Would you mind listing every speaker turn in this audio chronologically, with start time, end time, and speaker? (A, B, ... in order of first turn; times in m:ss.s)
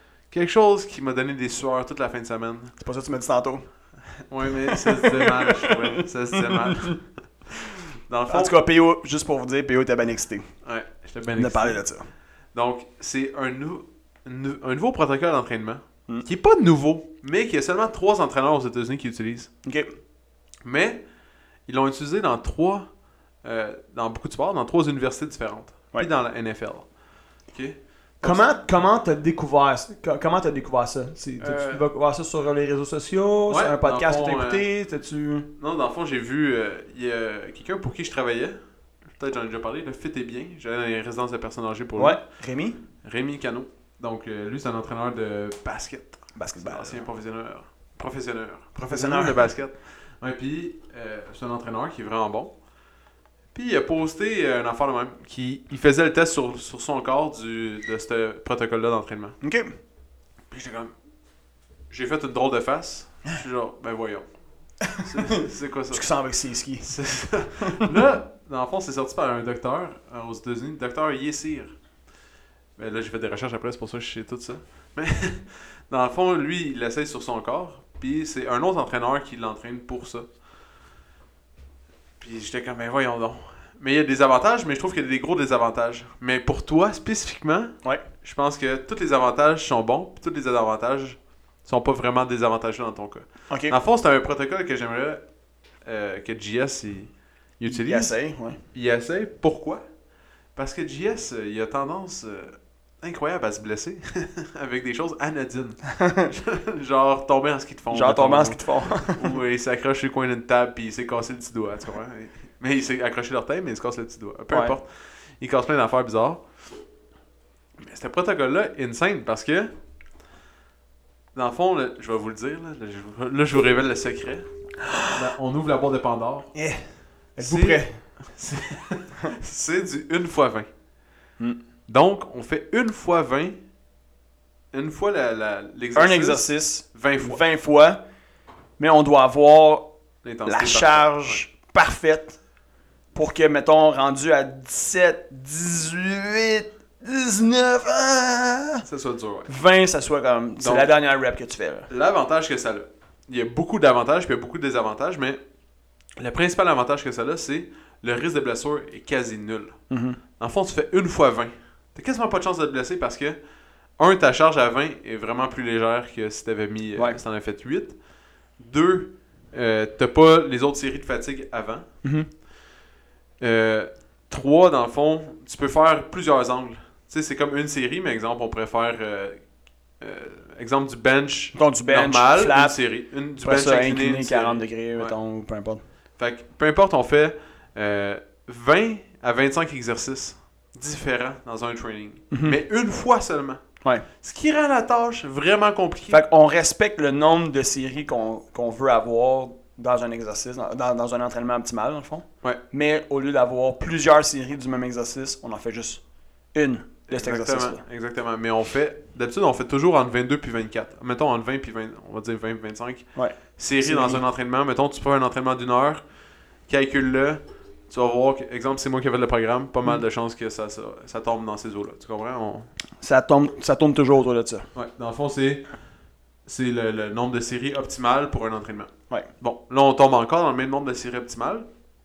0:00.3-0:02.7 A
0:02.8-0:03.7 B
0:04.2-0:08.5 A
0:04.7-0:07.0 B
0:08.3-0:10.5 B
0:10.6-0:11.8 A
0:11.4-0:12.1 B
0:12.5-0:19.5 A
0:19.6-0:19.9 B
0:20.6-0:21.0 A
0:21.7-0:22.9 A
0:23.4-0:26.9 A
0:27.5-0:28.4 A
0:28.2-0:35.5 B
0:31.4-0:31.9 A
0:33.5-0:34.6 A
0:35.6-0:38.6 A
0:39.1-0:42.2 A
0:42.0-0:42.8 B
0:43.0-0:52.5 A
0:46.4-0:47.0 B
0:48.9-0:49.5 B
0:53.5-0:59.4 A
0:59.4-0:59.7 B
1:00.5-1:00.9 A
1:01.9-1:04.3 A
1:04.8-1:06.9 B
1:04.9-1:06.1 A
1:06.8-1:11.8 A
1:07.6-1:07.9 B
1:12.8-1:20.3 A
1:22.2-1:35.2 A
1:33.5-1:33.8 B
1:35.8-1:38.2 A
1:37.7-1:38.6 B
1:38.7-1:39.8 A
1:40.6-1:54.9 A
1:45.9-1:46.3 B
1:47.9-1:49.4 B
1:55.4-1:56.4 A
1:57.8-1:59.7 A
2:01.4-2:04.5 A
2:05.0-2:06.5 A
2:06.5-2:06.8 B
2:07.4-2:08.0 B
2:07.4-2:10.7 A
2:11.9-2:13.6 A
2:14.7-2:17.4 A
2:16.0-2:18.0 B
2:18.8-2:19.9 B
2:20.2-2:21.4 A
2:20.5-2:22.4 B
2:23.2-2:28.8 B
2:28.8-2:29.5 A
2:29.5-2:31.9 B
2:30.6-2:30.9 A
2:31.9-2:35.4 A
2:36.2-2:39.8 A
2:39.9-2:40.2 B
2:40.4-2:43.4 A
2:44.0-2:48.0 A
2:48.6-2:51.9 A
2:52.0-2:52.3 B
2:53.4-2:59.4 A
3:00.0-3:05.1 A
3:01.6-3:02.8 B
3:03.4-3:05.8 B
3:06.2-3:13.6 A
3:12.3-3:12.6 B
3:14.2-3:16.2 A
3:16.1-3:26.0 B
3:26.5-3:27.8 B
3:27.1-3:36.0 A
3:33.2-3:34.2 B
3:36.7-3:42.7 A
3:43.0-3:44.7 B
3:44.7-3:45.7 A
3:46.5-3:51.7 A